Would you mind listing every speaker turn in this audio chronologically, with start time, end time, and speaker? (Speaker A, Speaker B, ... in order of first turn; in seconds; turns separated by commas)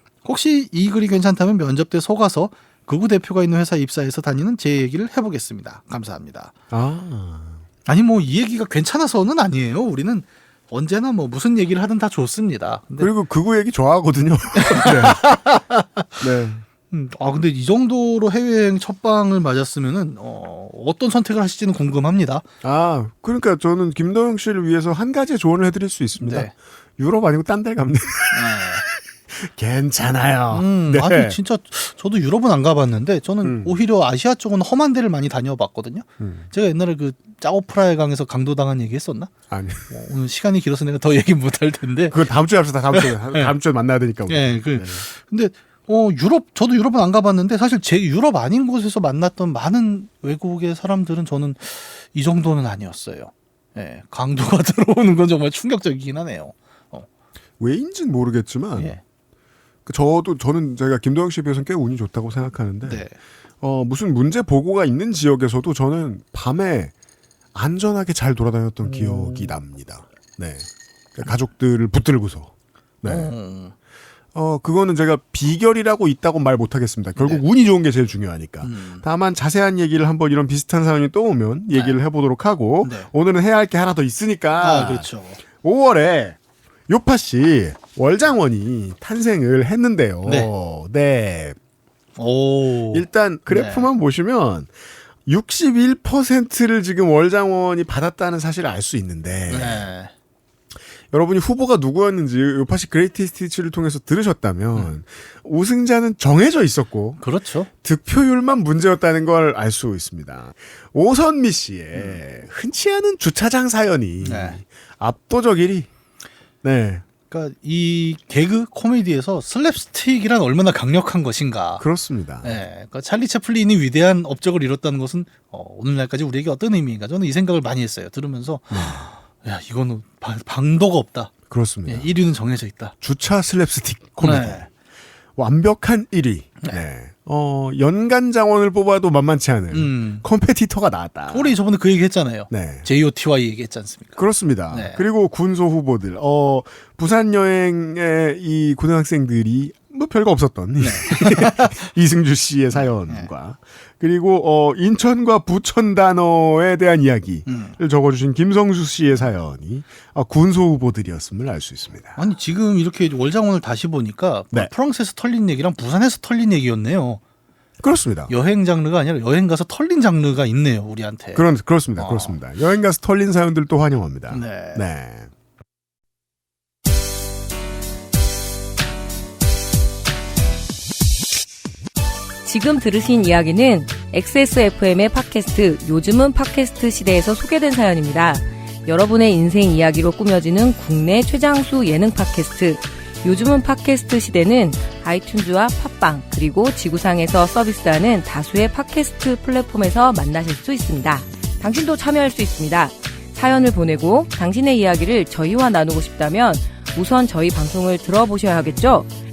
Speaker A: 0.2-6.5, Speaker B: 6.7-7.6, Speaker A: 7.8-13.1, Speaker B: 13.0-16.6, Speaker A: 14.6-15.6, Speaker A: 16.9-22.4, Speaker B: 22.6-31.4, Speaker A: 26.2-26.5, Speaker A: 28.3-28.8, Speaker A: 30.5-39.3, Speaker B: 33.4-33.7, Speaker B: 36.2-36.5, Speaker B: 39.5-39.9, Speaker A: 39.9-42.2, Speaker B: 42.1-45.0, Speaker A: 42.9-43.5, Speaker A: 44.3-57.1, Speaker B: 57.6-58.9, Speaker A: 58.7-59.0, Speaker B: 59.9-63.1, Speaker A: 62.8-63.1, Speaker B: 63.6-66.9, Speaker B: 67.5-72.5, Speaker A: 68.8-69.5, Speaker B: 73.0-73.3, Speaker A: 73.0-73.7, Speaker B: 74.3-86.4, Speaker A: 77.2-77.4, Speaker A: 78.6-79.0, Speaker A: 82.8-83.1, Speaker A: 84.6-85.4, Speaker B: 86.9-91.6, Speaker A: 90.2-90.5, Speaker A: 92.2-93.9, Speaker B: 92.9-94.7, Speaker B: 95.2-99.8, Speaker A: 99.5-100.1, Speaker B: 101.1-107.2, Speaker A: 107.2-107.7, Speaker B: 107.8-115.9, Speaker A: 114.2-114.6, Speaker B: 116.6-117.0, Speaker A: 117.3-121.8, Speaker B: 121.8-122.5, Speaker A: 122.4-131.3, Speaker B: 128.7-129.1, Speaker B: 131.5-132.1, Speaker A: 131.8-132.9, Speaker B: 133.0-134.7, Speaker A: 134.2-134.7, Speaker B: 135.3-141.5, Speaker A: 139.7-140.2, Speaker A: 141.3-144.2, Speaker B: 142.5-142.9, Speaker B: 144.2-162.2, Speaker A: 144.7-145.0, Speaker A: 150.8-151.7, Speaker A: 157.5-157.8, Speaker A: 162.2-167.2, Speaker B: 167.8-168.3, Speaker A: 168.3-171.4, Speaker B: 171.3-175.3, Speaker A: 172.0-172.3, Speaker A: 174.3-174.8, Speaker C: 182.4-209.1